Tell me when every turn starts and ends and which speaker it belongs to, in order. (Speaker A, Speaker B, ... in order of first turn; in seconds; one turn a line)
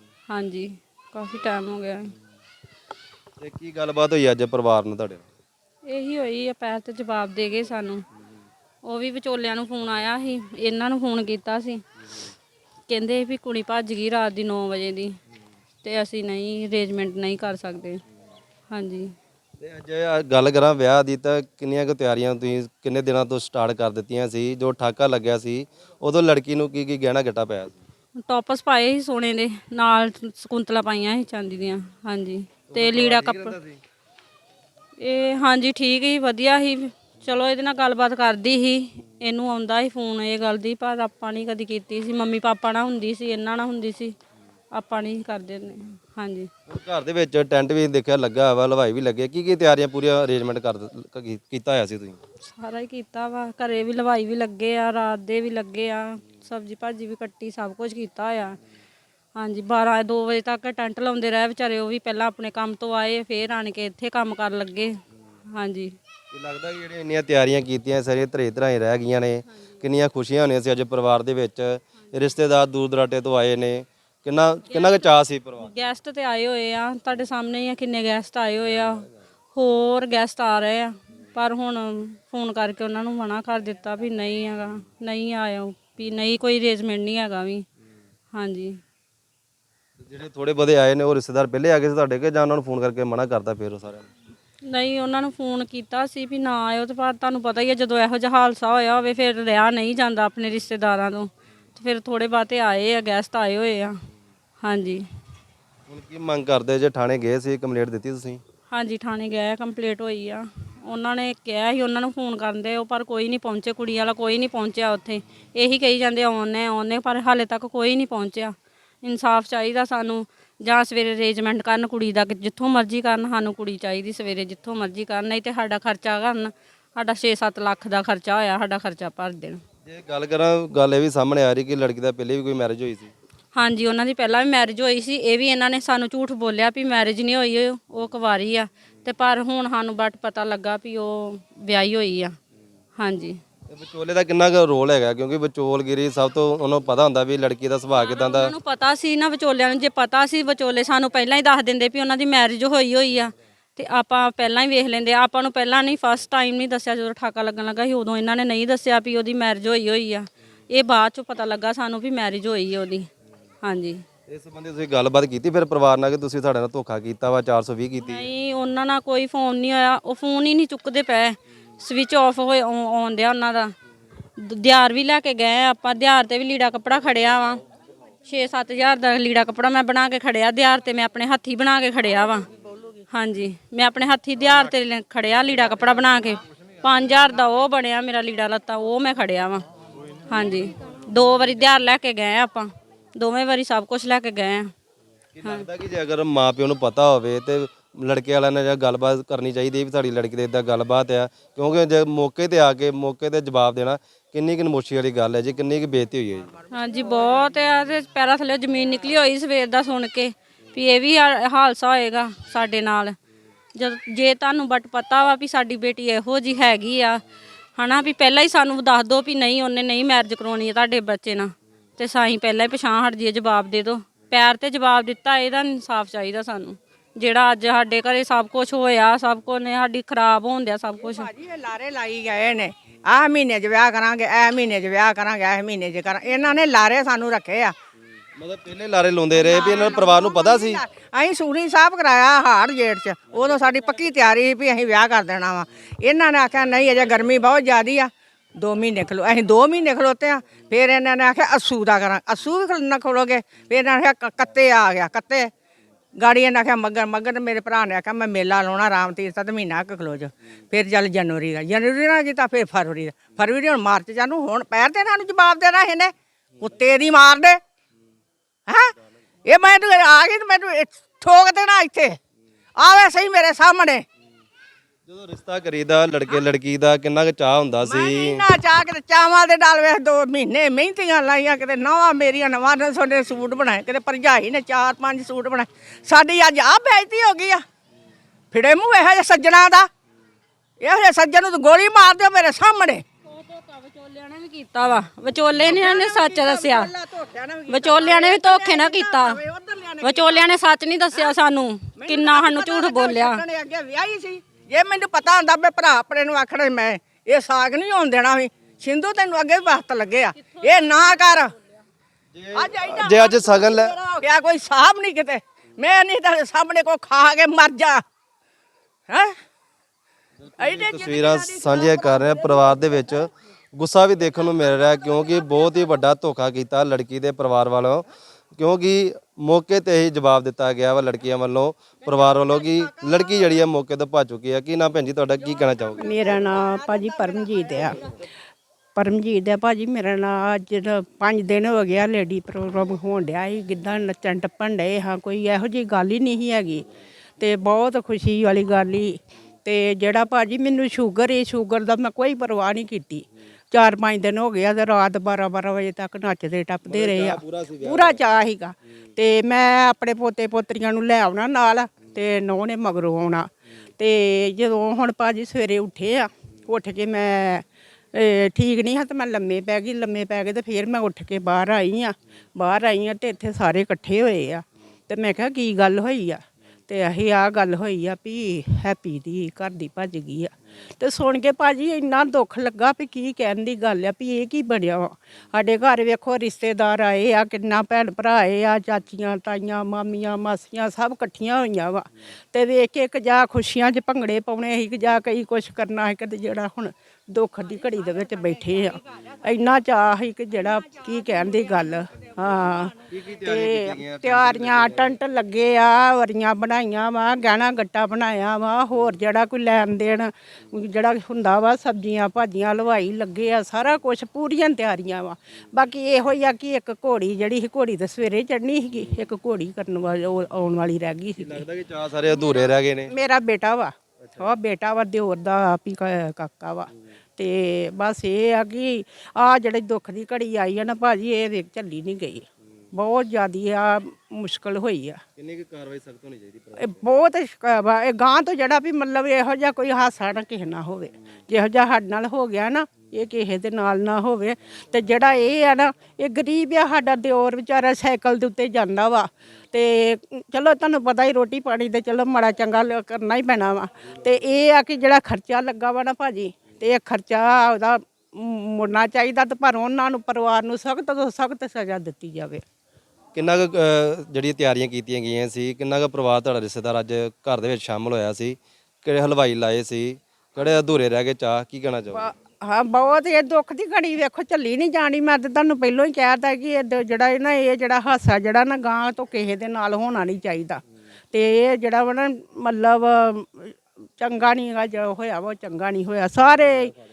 Speaker A: 0.3-2.0
Speaker B: 3.4-5.2
Speaker A: 5.8-8.0
Speaker A: 8.8-11.8
Speaker A: 12.9-15.1
Speaker A: 15.8-18.0
Speaker A: 18.7-19.1
Speaker B: 19.6-27.8
Speaker A: 28.2-33.5
Speaker B: 32.7-33.8
Speaker A: 35.0-44.2
Speaker A: 44.7-46.5
Speaker B: 46.7-52.2
Speaker A: 52.5-58.6
Speaker A: 59.3-65.0
Speaker A: 65.5-65.9
Speaker B: 66.3-75.8
Speaker A: 75.6-87.6
Speaker A: 88.3-88.8
Speaker B: 90.0-94.1
Speaker A: 94.7-103.9
Speaker A: 104.6-105.0
Speaker B: 105.9-108.4
Speaker A: 108.7-129.6
Speaker B: 129.8-133.1
Speaker A: 133.5-142.3
Speaker A: 143.0-143.4
Speaker B: 143.7-148.5
Speaker A: 147.9-163.1
Speaker A: 163.6-164.0
Speaker B: 164.3-168.3
Speaker A: 168.1-173.7
Speaker A: 174.4-177.6
Speaker A: 178.2-182.5
Speaker A: 183.1-189.6
Speaker A: 190.3-194.7
Speaker B: 195.3-206.5
Speaker A: 206.7-213.2
Speaker A: 213.7-217.2
Speaker A: 217.8-231.3
Speaker C: 231.0-237.7
Speaker B: 238.4-240.8
Speaker C: 239.3-255.5
Speaker C: 256.2-267.6
Speaker C: 269.5-272.2
Speaker C: 272.8-274.0
Speaker B: 275.1-278.4
Speaker C: 277.8-287.6
Speaker C: 288.5-289.9
Speaker C: 290.8-293.0
Speaker A: 293.3-296.9
Speaker C: 295.6-300.5
Speaker A: 297.7-299.4
Speaker A: 300.0-303.4
Speaker C: 302.0-311.5
Speaker B: 312.3-313.9
Speaker C: 312.6-318.0
Speaker C: 319.1-319.3
Speaker B: 320.5-328.0
Speaker C: 320.6-322.5
Speaker B: 328.6-336.1
Speaker D: 336.0-338.0
Speaker C: 336.2-337.9
Speaker D: 338.9-346.9
Speaker D: 347.4-421.6
Speaker B: 356.8-358.2
Speaker B: 403.1-405.1
Speaker B: 421.4-423.1
Speaker D: 422.2-435.2
Speaker B: 424.2-424.5
Speaker B: 435.4-437.0
Speaker D: 436.8-462.6
Speaker B: 463.3-472.3
Speaker D: 472.1-480.8
Speaker D: 481.3-486.9